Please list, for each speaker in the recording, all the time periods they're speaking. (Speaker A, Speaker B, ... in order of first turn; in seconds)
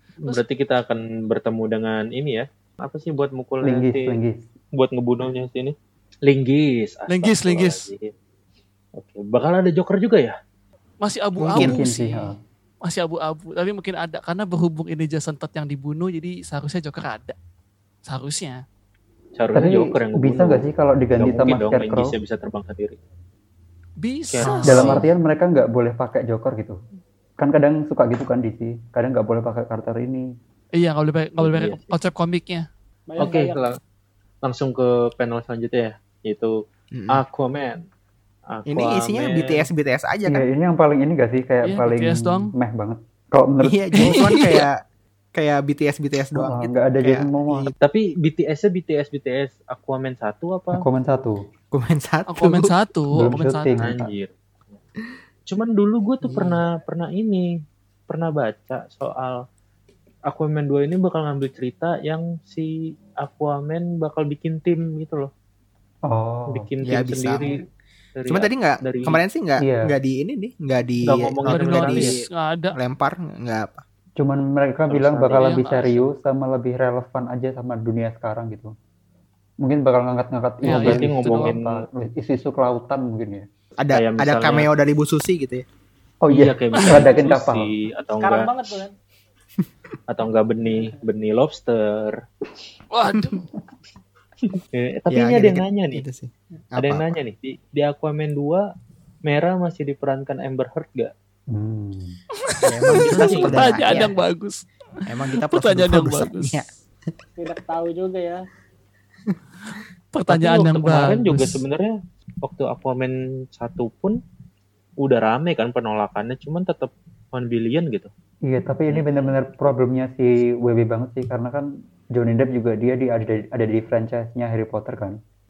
Speaker A: 0.2-4.2, 4.7-8.1, 9.0-10.4, 19.4-23.0, 24.3-25.1, 31.4-32.0, 33.2-33.8, 34.4-36.5, 37.1-37.8, 38.5-39.6, 47.8-50.8, 53.8-54.8, 55.5-57.5, 58.1-59.4, 60.3-65.3, 66.5-67.6, 68.2-69.2, 71.0-72.2, 74.9-76.0, 80.6-81.8, 83.9-84.7, 86.3-88.5, 90.1-92.2, 94.7-96.0, 96.8-98.7, 99.3-101.1, 102.9-104.1, 110.3-114.2, 115.0-118.1, 118.9-119.4
Speaker B: 3.6-4.5, 11.6-12.4, 19.5-22.2, 24.4-26.8, 27.4-30.3, 40.3-44.1, 46.4-47.7, 50.7-51.5, 53.1-54.1, 66.1-66.7, 69.6-69.9, 74.2-78.7, 79.6-83.5, 86.2-87.7, 101.5-102.2, 118.5-125.2
Speaker C: 7.1-7.9, 11.0-17.4, 18.1-18.6, 24.0-25.1, 30.8-32.7, 41.6-42.5, 44.0-44.7, 52.3-53.7, 71.5-72.8, 75.4-76.0, 80.7-81.5, 92.9-93.4, 102.5-104.7, 105.4-106.6, 110.1-111.6
Speaker D: 11.4-11.8, 36.9-37.2, 38.7-40.5, 43.6-44.8, 45.4-47.7, 51.7-52.7, 56.2-56.6, 66.8-67.5, 68.3-72.2, 72.7-73.8, 83.8-85.7, 95.1-97.1, 102.6-104.1, 105.1-107.1
Speaker E: 33.1-33.7, 88.2-88.9, 107.4-108.5